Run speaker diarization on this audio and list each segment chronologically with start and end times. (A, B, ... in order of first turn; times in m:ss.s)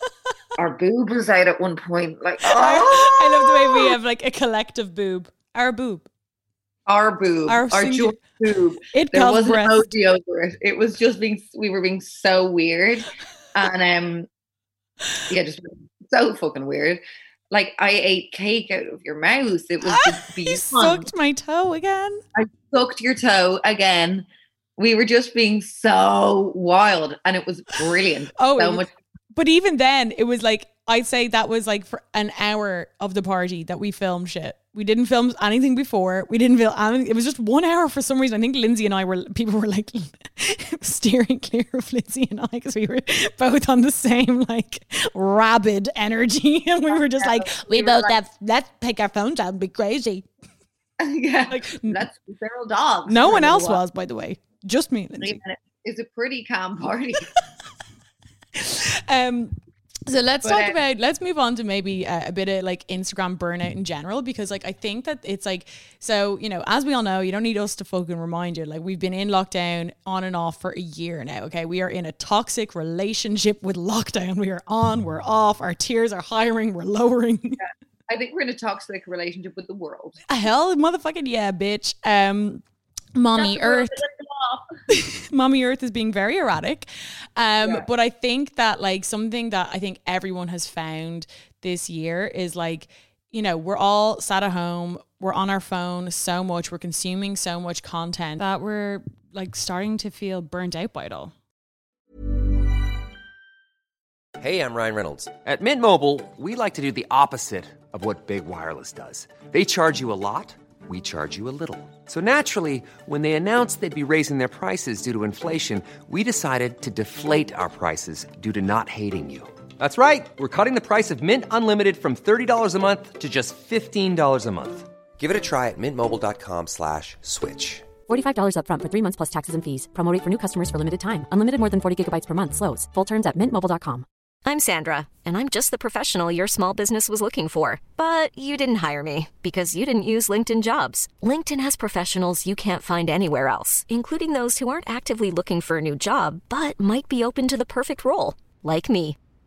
0:00.6-0:04.0 A
0:02.4-0:06.1 B
0:06.9-0:14.3 A
0:07.5-0:08.2 B
0:08.9-0:09.9 B
0:15.3-0:21.1 A
0:19.8-0:22.2 B
0:22.4-0:24.3 A
0:24.8-0:28.9 A
0:28.4-0:50.3 B
0:46.9-0:48.2 A
0:51.0-0:53.8 A
0:51.5-0:52.0 B
0:53.1-0:55.4 B
0:55.2-0:57.3 A
0:58.6-0:59.6 B
1:00.1-1:17.6 B
1:00.4-1:00.8 A
1:17.6-1:20.2 A
1:20.3-1:22.6 B
1:23.2-1:24.0 B
1:23.4-1:24.8 A
1:24.9-1:41.3 B
1:44.4-2:07.9 C
2:08.1-2:14.0 D
2:14.5-2:29.2 E